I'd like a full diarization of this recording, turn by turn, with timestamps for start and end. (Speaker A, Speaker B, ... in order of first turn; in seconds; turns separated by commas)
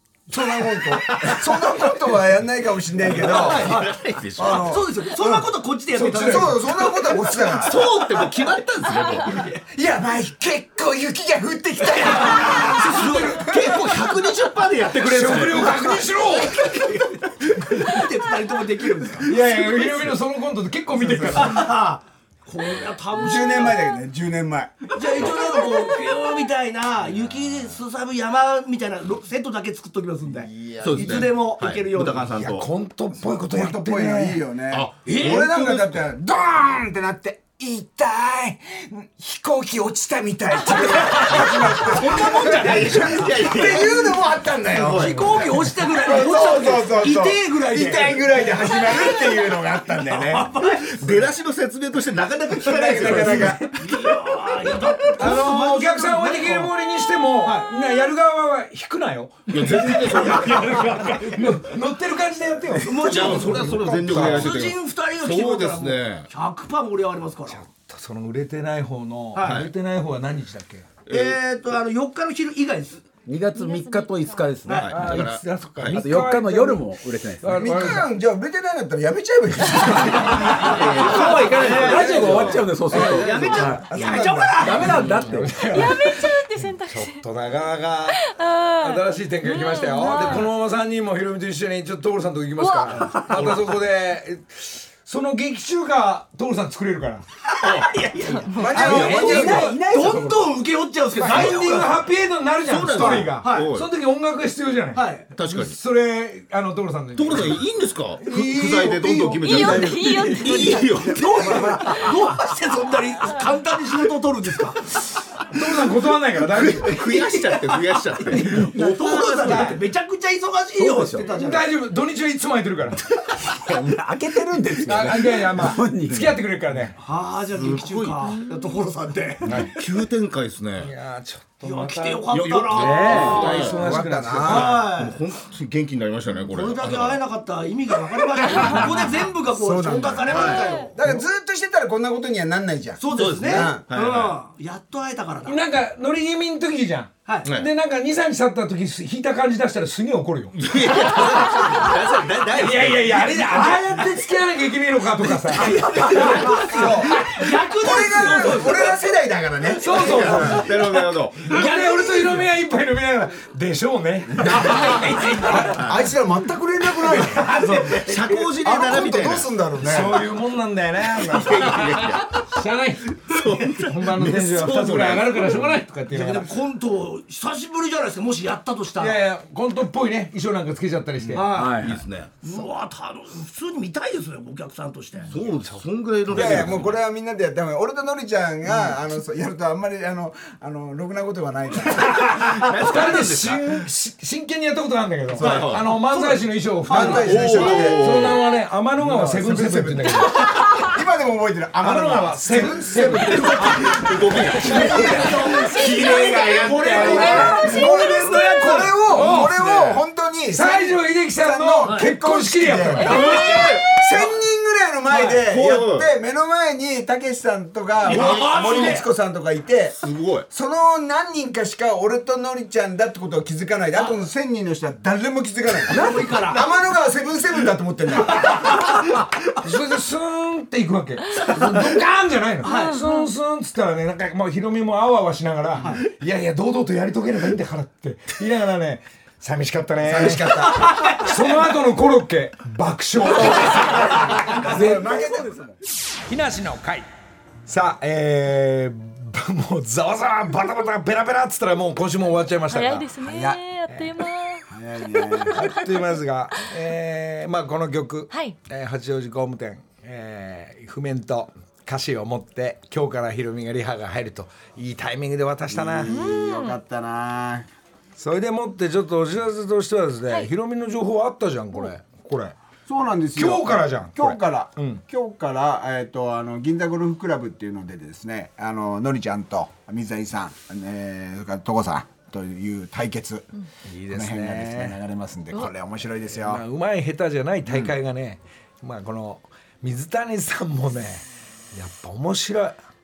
Speaker A: 0.3-3.8, Speaker B: 3.0-7.1, Speaker C: 3.1-4.9, Speaker A: 4.4-5.2, Speaker D: 5.9-6.7, Speaker A: 6.2-7.8, Speaker C: 7.5-9.4, Speaker B: 7.7-9.6, Speaker A: 9.7-13.7, Speaker B: 12.0-20.2, Speaker C: 12.2-15.9, Speaker D: 12.5-13.4, Speaker D: 15.0-16.6, Speaker D: 19.2-21.7, Speaker B: 21.3-24.0, Speaker A: 23.1-25.5, Speaker B: 24.9-32.3, Speaker A: 30.5-31.2, Speaker C: 30.8-32.7, Speaker D: 32.4-34.4, Speaker A: 33.3-51.2, Speaker C: 34.7-36.0, Speaker B: 40.6-43.6, Speaker C: 42.0-44.1, Speaker C: 44.7-45.5, Speaker B: 44.8-50.9, Speaker C: 50.8-53.7, Speaker A: 52.5-53.7, Speaker B: 53.7-56.7, Speaker D: 55.2-64.5, Speaker B: 57.3-57.7, Speaker C: 59.5-61.3, Speaker B: 59.8-61.0, Speaker B: 62.7-67.6, Speaker C: 62.9-66.3, Speaker D: 67.5-70.9, Speaker B: 69.3-69.6, Speaker C: 69.3-69.7, Speaker C: 71.1-71.3, Speaker B: 71.1-73.1, Speaker E: 73.2-75.3, Speaker F: 73.5-74.7, Speaker B: 74.6-75.2, Speaker C: 74.7-76.1, Speaker D: 74.9-78.1, Speaker E: 75.9-77.8, Speaker A: 77.5-81.2, Speaker C: 80.6-83.8, Speaker B: 80.7-85.0, Speaker E: 80.9-85.7, Speaker D: 81.7-83.0, Speaker A: 83.3-84.9, Speaker D: 83.9-88.2, Speaker F: 85.7-87.2, Speaker F: 88.1-90.5, Speaker D: 88.8-97.2, Speaker F: 92.6-93.4, Speaker C: 93.4-93.7, Speaker B: 97.5-102.1, Speaker C: 97.6-98.0, Speaker A: 98.6-99.7, Speaker D: 98.7-99.8, Speaker E: 98.8-100.5, Speaker D: 101.2-107.6, Speaker C: 101.2-101.6, Speaker C: 102.6-103.9, Speaker B: 102.9-103.7, Speaker B: 104.9-105.2, Speaker C: 105.3-105.8, Speaker C: 107.2-111.8, Speaker D: 108.2-109.9, Speaker F: 109.4-112.2, Speaker B: 111.0-115.0, Speaker F: 113.2-113.5, Speaker D: 115.5-116.9, Speaker C: 116.5-119.3, Speaker B: 116.9-121.7, Speaker E: 118.4-119.7, Speaker D: 119.4-119.8, Speaker E: 120.8-121.3, Speaker D: 121.2-123.0, Speaker E: 123.4-126.5, Speaker D: 124.8-126.9, Speaker B: 126.9-129.5, Speaker C: 127.5-128.4, Speaker F: 128.2-128.9, Speaker D: 129.4-129.7, Speaker C: 129.6-130.9, Speaker D: 130.8-134.8, Speaker B: 131.6-133.7, Speaker C: 132.3-133.8, Speaker A: 133.3-134.9, Speaker C: 134.4-137.2, Speaker B: 134.5-135.2, Speaker B: 136.4-140.9, Speaker F: 138.4-138.8, Speaker C: 138.5-138.8, Speaker A: 139.4-143.8, Speaker C: 140.3-140.7, Speaker F: 140.4-140.9, Speaker B: 143.0-145.6, Speaker C: 143.1-144.3, Speaker D: 145.4-151.9, Speaker C: 150.6-153.5, Speaker B: 151.1-152.0, Speaker D: 152.5-157.3, Speaker B: 153.2-154.2, Speaker B: 155.2-159.0, Speaker A: 156.5-160.7, Speaker D: 159.8-160.7, Speaker C: 159.8-161.6, Speaker B: 160.0-160.3, Speaker D: 161.4-165.8, Speaker B: 161.5-162.3, Speaker A: 164.3-164.9, Speaker C: 164.6-166.1, Speaker B: 164.9-165.6, Speaker A: 165.7-170.2, Speaker B: 167.3-168.4, Speaker C: 167.8-169.5, Speaker D: 169.8-173.2, Speaker C: 171.2-172.4, Speaker C: 173.3-175.7, Speaker D: 173.7-176.5, Speaker B: 175.5-179.2, Speaker D: 179.0-181.4, Speaker C: 181.3-182.3, Speaker B: 181.3-185.3, Speaker E: 181.5-182.0, Speaker C: 185.3-187.0, Speaker D: 185.3-186.9, Speaker A: 186.3-192.6, Speaker D: 192.0-200.5, Speaker C: 192.3-193.8, Speaker C: 195.3-195.9, Speaker A: 195.4-198.3, Speaker C: 196.9-198.4, Speaker A: 198.9-228.9, Speaker D: 201.8-203.9, Speaker C: 203.0-205.3, Speaker D: 204.4-207.9, Speaker B: 204.5-209.3, Speaker F: 205.5-208.8, Speaker D: 209.0-213.2, Speaker B: 211.8-212.1, Speaker B: 213.0-214.3, Speaker C: 213.0-214.0, Speaker B: 215.1-215.4, Speaker C: 215.5-216.1, Speaker B: 218.0-219.1, Speaker C: 218.1-219.0, Speaker C: 220.0-220.5, Speaker B: 225.8-226.7, Speaker B: 228.3-229.1, Speaker D: 229.6-245.0, Speaker B: 231.6-231.9, Speaker B: 232.6-233.0, Speaker F: 232.6-233.3, Speaker A: 240.0-241.1, Speaker B: 240.6-241.5, Speaker A: 243.4-245.8, Speaker E: 244.3-245.5, Speaker D: 246.3-247.1, Speaker D: 247.7-253.1, Speaker F: 252.7-255.8, Speaker A: 253.2-253.6, Speaker A: 254.7-255.6, Speaker D: 255.5-266.1, Speaker F: 258.3-258.6, Speaker A: 265.7-267.7, Speaker F: 266.1-266.8, Speaker D: 268.1-272.5, Speaker A: 272.9-283.5, Speaker D: 273.4-275.0, Speaker D: 283.8-285.0, Speaker A: 284.1-286.6, Speaker D: 286.4-292.8, Speaker A: 287.6-287.9